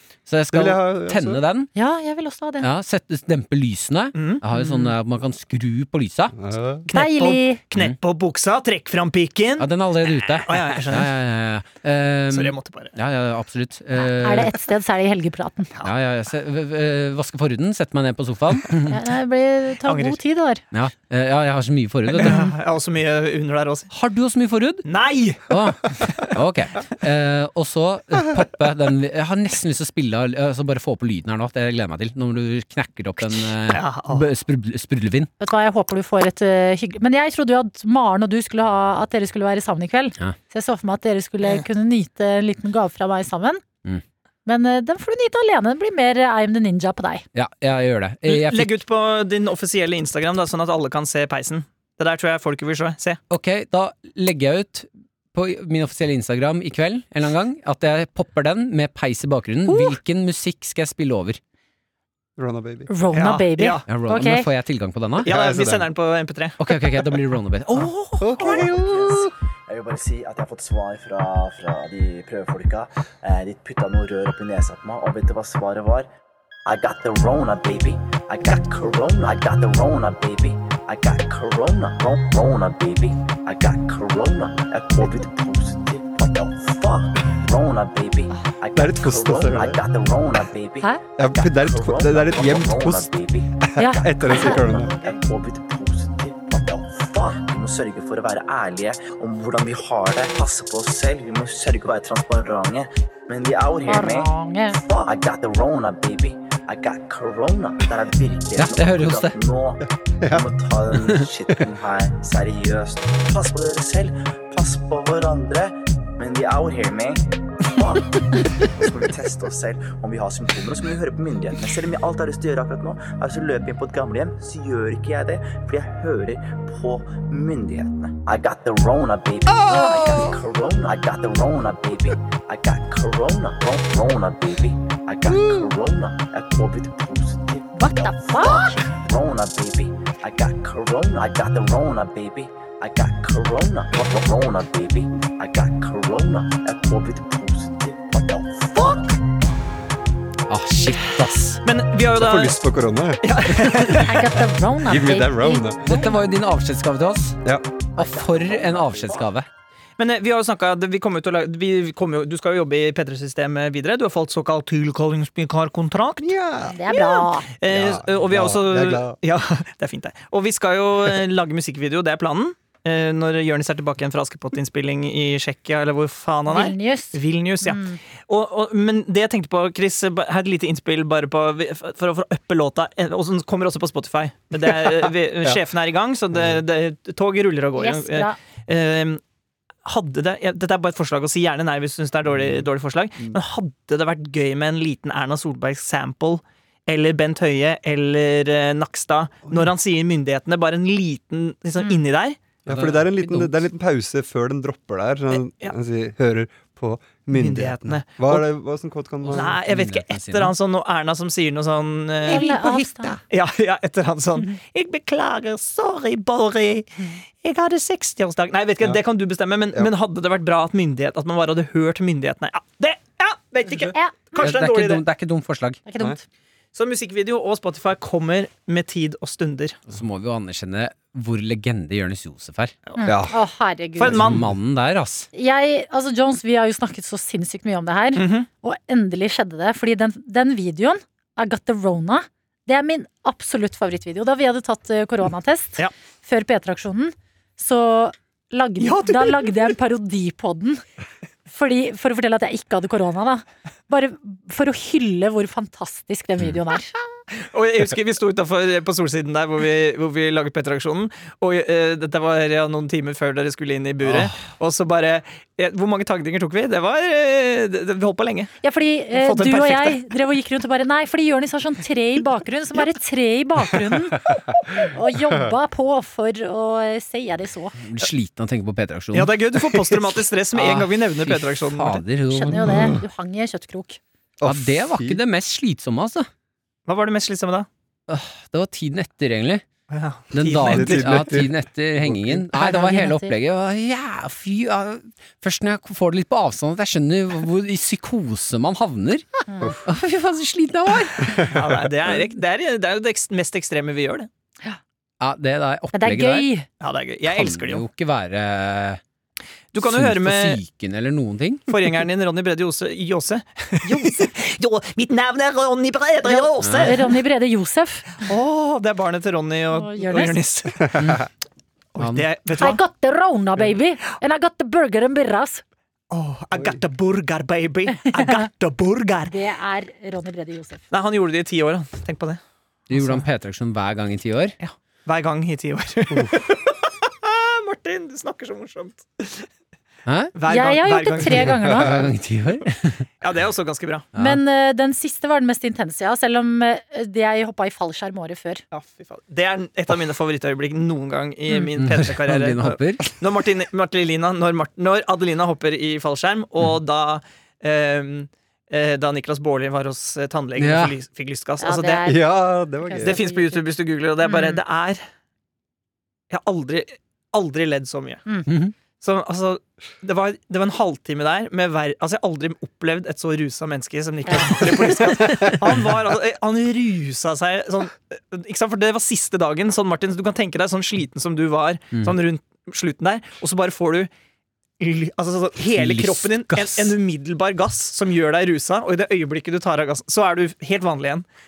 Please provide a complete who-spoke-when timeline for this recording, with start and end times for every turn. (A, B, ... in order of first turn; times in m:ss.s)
0:00.3-0:01.7 A
0:00.5-0:01.4 B
0:01.7-0:02.7 C
0:02.6-0:06.3 A
0:04.1-0:04.9 D
0:06.4-0:06.8 B
0:06.9-0:09.7 D
0:06.9-0:07.6 C
0:09.6-0:14.5 A
0:10.4-0:11.1 D
0:12.3-0:12.9 D
0:13.9-0:15.7 C
0:15.8-0:19.0 A
0:18.9-0:20.6 C
0:19.8-0:20.2 D
0:20.7-0:22.4 A
0:22.1-0:23.9 D
0:22.2-0:22.5 C
0:23.9-0:24.8 A
0:24.8-0:26.2 D
0:25.5-0:35.3 A
0:33.2-0:34.2 D
0:35.4-0:43.6 C
0:44.4-0:47.2 C
0:47.3-0:48.8 A
0:48.2-0:53.2 D
0:53.3-1:01.4 A
0:59.7-1:00.0 C
1:02.4-1:02.9 B
1:02.9-1:04.5 C
1:03.1-1:03.8 D
1:03.9-1:05.3 A
1:05.2-1:05.9 B
1:05.2-1:06.6 D
1:06.6-1:08.2 A
1:08.2-1:09.3 B
1:08.6-1:16.1 E
1:16.6-2:29.2 E
1:28.7-1:29.8 B
1:31.2-1:34.9 B
1:33.8-1:34.7 C
1:43.8-1:44.8 C
1:48.6-1:49.3 A
1:49.8-1:50.5 B
2:09.5-2:10.3 B
2:09.7-2:10.3 C
2:15.3-2:15.7 B
2:17.8-2:18.8 C
2:30.5-2:31.6 A
2:31.6-2:32.6 D
2:32.1-2:34.3 B
2:33.2-2:34.2 D
2:33.9-2:36.2 C
2:34.8-2:36.0 B
2:35.9-2:37.4 A
2:37.4-2:37.8 B
2:38.0-2:39.5 A
2:38.0-2:39.3 E
2:40.0-2:46.3 D
2:46.2-2:46.8 B
2:46.6-2:47.5 C
2:46.9-3:09.2 D
2:47.7-2:49.2 B
2:56.5-2:58.0 C
3:04.8-3:05.6 B
3:06.3-3:06.6 B
3:07.7-3:08.4 C
3:09.8-3:22.4 D
3:12.3-3:12.6 B
3:22.6-3:29.5 B
3:22.7-3:23.6 A
3:25.3-3:25.7 D
3:27.3-3:28.5 D
3:29.3-3:30.5 A
3:29.3-3:45.0 D
3:32.2-3:33.2 C
3:43.9-3:44.5 C
3:44.4-3:45.8 A
3:45.8-3:46.2 C
3:46.7-3:49.8 D
3:49.9-3:52.7 A
3:53.0-3:54.2 C
3:53.0-3:53.4 B
3:54.0-3:54.5 D
3:54.1-3:54.5 B
3:54.2-3:55.3 A
3:55.3-4:10.8 C
3:58.1-3:58.5 D
4:08.8-4:09.5 D
4:11.5-4:16.9 C
4:17.3-4:28.5 D
4:28.6-4:37.8 C
4:29.1-4:30.0 D
4:37.8-4:39.3 A
4:39.1-4:42.0 D
4:39.6-4:39.9 B
4:40.6-4:42.6 A
4:42.3-4:44.0 C
4:42.5-4:43.0 B
4:44.4-4:45.2 B
4:44.4-4:46.3 A
4:46.8-4:47.7 D
4:48.1-4:49.6 A
4:49.9-4:51.1 D
4:50.3-4:59.3 A
4:50.6-4:52.5 B
4:52.5-4:53.3 C
4:59.5-4:59.8 C
4:59.8-5:01.3 A
5:01.5-5:04.3 D
5:05.2-5:06.5 A
5:05.9-5:06.7 C
5:06.8-5:07.8 D
5:07.3-5:09.0 A
5:09.7-5:10.6 D
5:09.8-5:11.6 A
5:11.7-5:17.2 D
5:16.2-5:18.2 C
5:16.6-5:16.9 A
5:18.2-5:21.0 D
5:19.7-5:20.4 C
5:21.0-5:21.2 A
5:21.9-5:22.8 D
5:22.0-5:22.2 A
5:22.6-5:25.6 C
5:26.1-5:29.3 D
5:29.2-5:30.8 C
5:30.9-5:32.4 D
5:32.9-5:34.6 A
5:32.9-5:33.2 D
5:34.6-5:39.5 D
5:40.0-5:40.3 A
5:40.3-5:41.6 D
5:40.4-5:42.1 C
5:41.3-5:42.0 B
5:41.7-5:43.0 A
5:43.2-5:44.1 D
5:44.2-5:44.4 A
5:44.2-5:48.6 C
5:48.7-6:02.0 D
5:51.8-5:53.1 A
6:00.6-6:00.9 A
6:01.6-6:03.6 C
6:02.0-6:03.2 B
6:03.0-6:05.0 D
6:04.2-6:04.6 C
6:06.3-6:08.2 D
6:08.4-6:08.7 A
6:09.0-6:24.1 D
6:24.8-6:31.2 D
6:25.7-6:26.9 A